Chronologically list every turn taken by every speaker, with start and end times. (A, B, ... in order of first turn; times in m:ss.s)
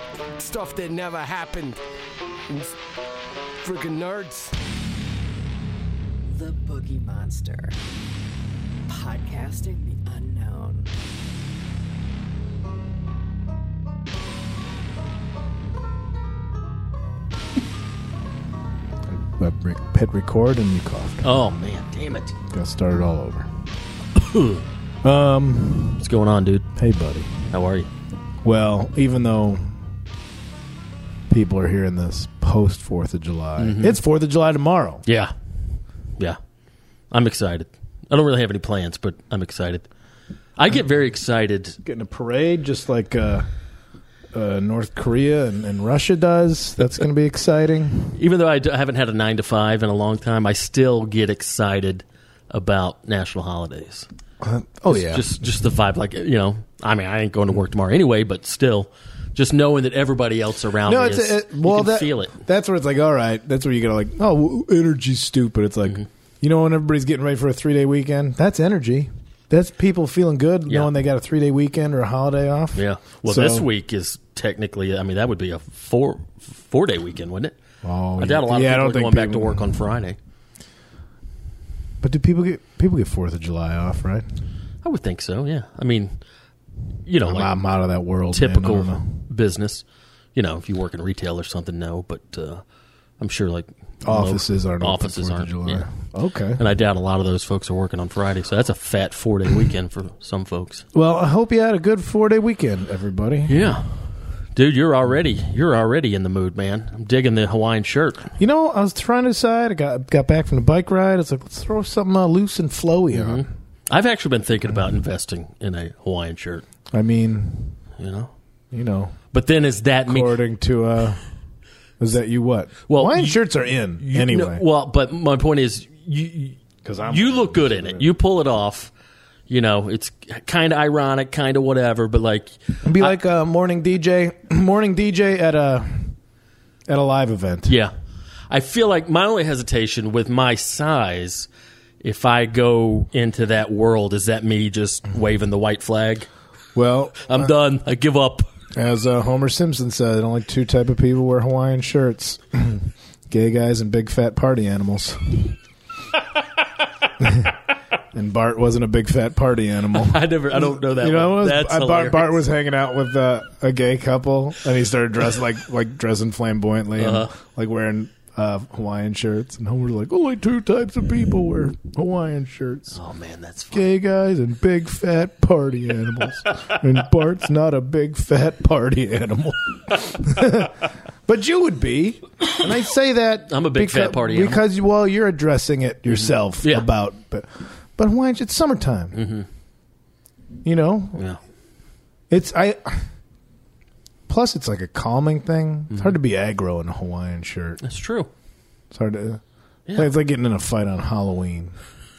0:00.4-0:01.8 A
0:02.5-0:02.8 A
0:03.6-0:04.5 A
0:06.2-0:07.8 B
0:08.9-0:10.9 B
0:19.1-0:21.3 C
0:21.2-0:22.4 D
0:22.5-0:23.5 C
0:24.2-0:24.6 D
0:25.0-0:26.0 C
0:26.0-0:26.7 D
0:26.8-0:27.5 C
0:27.5-0:27.9 D
0:28.4-0:29.8 C
0:31.3-0:35.0 C
0:33.6-0:34.0 D
0:35.0-0:35.3 D
0:37.1-0:39.9 D
0:40.6-0:41.8 D
0:41.8-0:43.5 C
0:44.3-0:48.2 C
0:48.2-0:54.1 D
0:54.4-0:55.4 C
0:54.9-1:02.4 D
1:00.9-1:13.7 C
1:12.7-1:17.6 D
1:17.8-1:19.8 C
1:18.2-1:20.2 D
1:22.0-1:24.3 C
1:24.8-1:26.2 D
1:27.1-1:27.5 D
1:27.2-1:29.2 C
1:28.3-1:29.8 D
1:30.4-1:32.6 D
1:33.2-1:35.9 D
1:34.0-1:36.6 C
1:36.6-1:40.8 D
1:40.9-1:43.6 C
1:43.5-1:48.3 D
1:48.4-1:53.5 C
1:53.1-1:56.7 D
1:56.9-1:57.8 C
1:58.0-1:58.3 D
1:58.7-1:59.2 C
1:59.3-2:00.4 D
2:00.1-2:01.2 C
2:02.0-2:04.6 C
2:02.9-2:03.4 D
2:04.0-2:08.9 D
2:06.8-2:08.1 C
2:09.5-2:13.2 D
2:12.8-2:16.2 C
2:16.9-2:17.7 C
2:17.7-2:17.9 D
2:18.5-2:21.5 D
2:22.0-2:26.3 D
2:26.8-2:27.5 C
2:27.2-2:28.5 D
2:28.8-2:35.6 C
2:37.2-2:37.6 C
2:38.1-2:53.0 C
2:39.9-2:42.4 D
2:47.0-2:47.3 D
2:52.9-2:53.9 D
2:53.7-3:09.2 C
3:03.5-3:04.6 D
3:06.1-3:06.9 D
3:09.1-3:09.5 D
3:10.6-3:11.2 C
3:12.3-3:13.1 C
3:14.3-3:17.8 C
3:15.9-3:16.2 D
3:17.8-3:18.3 D
3:18.9-3:19.4 C
3:19.9-3:20.1 D
3:20.0-3:21.8 C